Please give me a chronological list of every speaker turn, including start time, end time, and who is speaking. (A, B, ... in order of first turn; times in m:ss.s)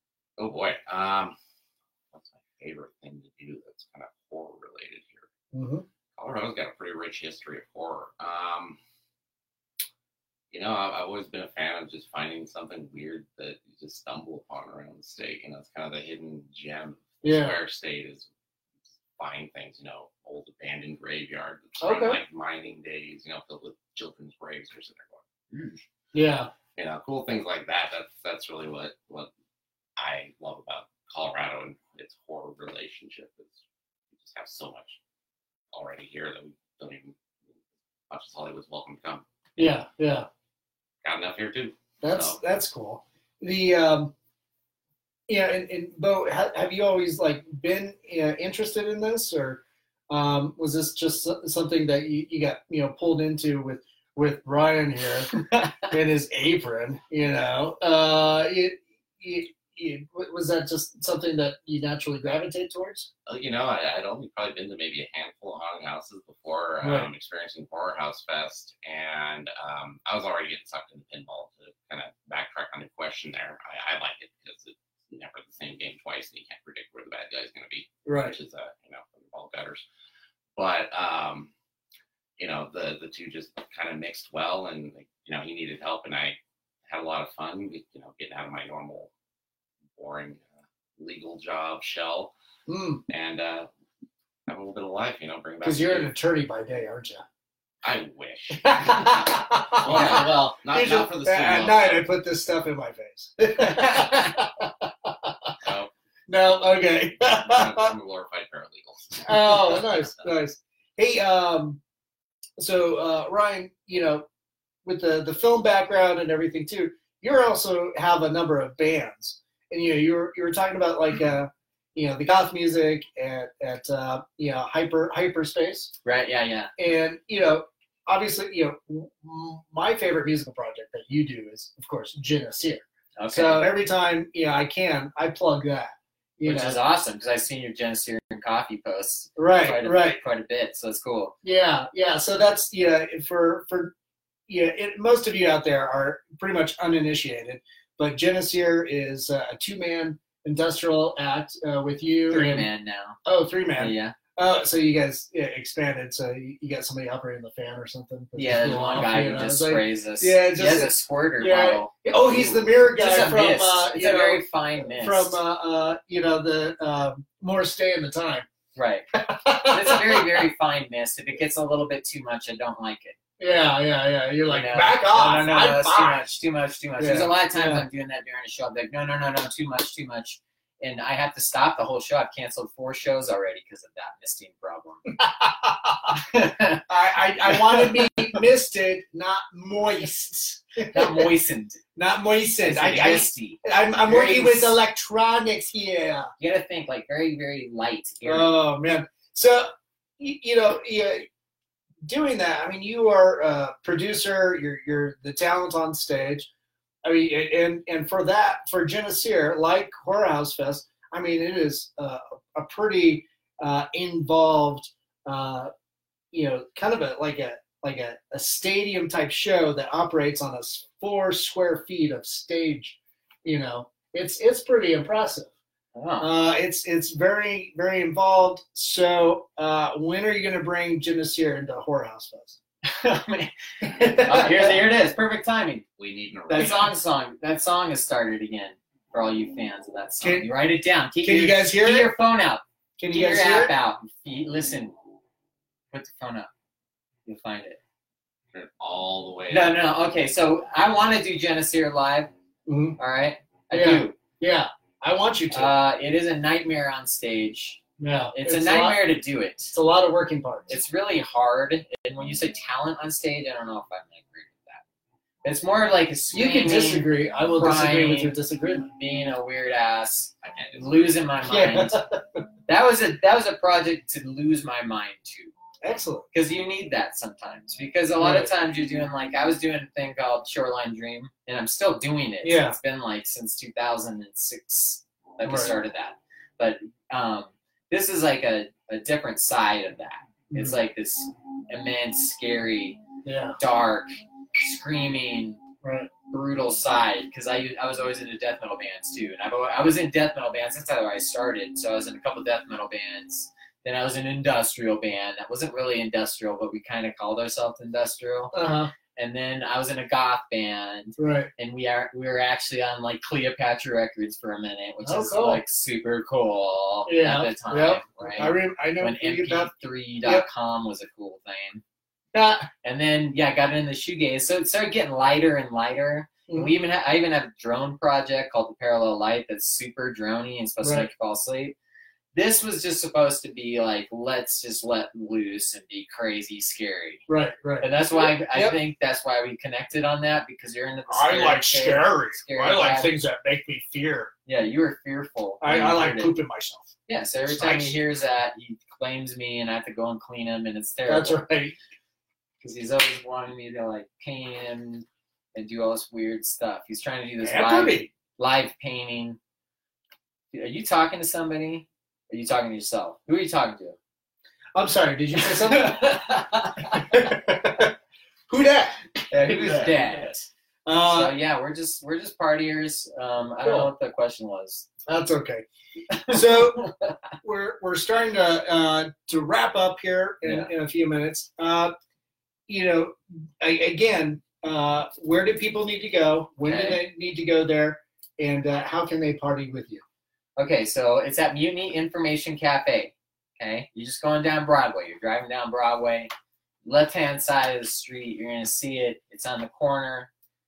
0:00.4-0:01.4 A
0:02.1-0:05.3 A
0:05.5-0:05.8 B
0:06.2-0:08.8 A
0:10.5-0:18.3 A
0:17.2-0:17.6 B
0:19.2-0:25.8 A
0:21.8-0:22.2 B
0:26.1-0:26.5 B
0:26.8-0:29.3 A
0:30.0-0:33.6 A
0:34.2-0:35.0 A
0:35.7-0:37.2 A
0:38.1-0:39.2 A
0:39.6-0:40.3 B
0:41.0-0:42.4 A
0:42.0-0:44.1 B
0:45.3-1:03.1 B
1:03.3-1:19.8 A
1:06.8-1:07.1 B
1:18.1-1:18.4 B
1:20.6-1:21.5 A
1:22.4-1:26.4 A
1:26.9-1:29.1 A
1:30.0-1:30.5 A
1:31.0-1:32.3 A
1:32.7-1:33.0 B
1:33.1-1:33.7 A
1:34.5-1:36.1 A
1:35.6-1:37.2 B
1:37.8-1:42.0 A
1:38.6-1:45.6 B
1:39.9-1:40.3 C
1:45.6-1:45.9 A
1:46.3-1:47.9 B
1:47.3-1:50.2 A
1:49.2-1:51.8 B
1:52.6-1:54.3 B
1:54.8-2:05.9 B
2:06.0-2:06.7 C
2:06.8-2:16.8 B
2:13.2-2:13.7 C
2:16.4-2:21.3 C
2:19.4-2:20.2 B
2:21.4-2:23.9 B
2:24.5-2:32.7 B
2:32.3-2:33.2 C
2:33.2-2:48.5 B
2:33.8-2:34.2 C
2:38.4-2:45.4 C
2:48.8-2:53.2 C
2:49.1-2:50.5 B
2:53.4-2:56.3 B
2:54.5-3:05.0 C
2:57.0-2:57.8 B
3:05.2-3:06.2 B
3:06.2-3:06.9 C
3:06.9-3:11.3 B
3:07.4-3:07.9 C
3:10.9-3:11.8 C
3:12.0-3:16.3 B
3:12.6-3:14.8 C
3:16.4-3:18.5 C
3:18.2-3:19.7 B
3:20.2-3:21.2 B
3:22.0-3:26.5 B
3:27.0-3:35.7 B
3:36.3-3:45.5 B
3:46.0-3:46.3 C
3:46.2-3:52.6 B
3:52.8-3:55.8 C
3:53.8-3:54.8 B
3:56.0-3:56.9 A
3:56.5-4:04.9 C
4:00.2-4:00.5 B
4:01.2-4:02.1 B
4:03.0-4:03.7 B
4:05.9-4:06.5 C
4:07.3-4:07.8 C
4:08.5-4:09.8 A
4:09.5-4:12.3 C
4:12.7-4:13.0 B
4:13.0-4:14.2 C
4:13.7-4:15.7 B
4:15.5-4:17.8 C
4:18.0-4:19.0 B
4:18.3-4:19.7 C
4:19.7-4:20.8 B
4:20.7-4:24.8 C
4:25.4-4:28.4 C
4:26.3-4:28.9 B
4:29.0-4:32.0 C
4:30.4-4:31.2 A
4:31.5-4:32.4 B
4:32.7-4:35.5 C
4:35.8-4:36.3 B
4:36.3-4:53.0 C
4:38.2-4:38.5 B
4:42.4-4:42.8 B
4:45.4-4:45.8 B
4:50.5-4:50.8 B
4:53.2-4:53.6 B
4:53.6-4:55.6 C
4:55.8-4:56.1 B
4:56.3-5:08.5 C
5:08.5-5:08.9 B
5:09.2-5:21.8 C
5:11.2-5:11.5 B
5:15.0-5:15.6 B
5:17.1-5:19.7 B
5:22.3-5:22.7 B
5:22.8-5:31.8 C
5:26.5-5:26.7 B
5:30.8-5:31.1 B
5:32.3-5:37.3 C
5:37.3-5:38.8 B
5:37.8-5:43.1 C
5:41.1-5:44.3 B
5:44.5-5:46.4 C
5:45.6-5:46.9 B
5:47.1-5:51.4 C
5:47.5-5:48.0 B
5:51.1-5:51.8 B
5:52.6-5:59.4 C
5:57.4-5:58.1 B
6:00.5-6:04.0 C
6:04.8-6:07.9 B
6:05.4-6:07.2 C
6:08.5-6:10.1 B
6:09.4-6:10.5 C
6:10.9-6:11.4 B
6:11.1-6:14.9 C
6:13.6-6:13.9 B
6:15.1-6:15.6 B
6:16.2-6:16.9 C
6:16.3-6:16.9 B
6:17.4-6:21.9 B
6:20.4-6:20.7 C
6:22.7-6:30.0 B
6:26.6-6:27.0 C
6:30.6-6:36.3 C
6:36.8-6:40.3 C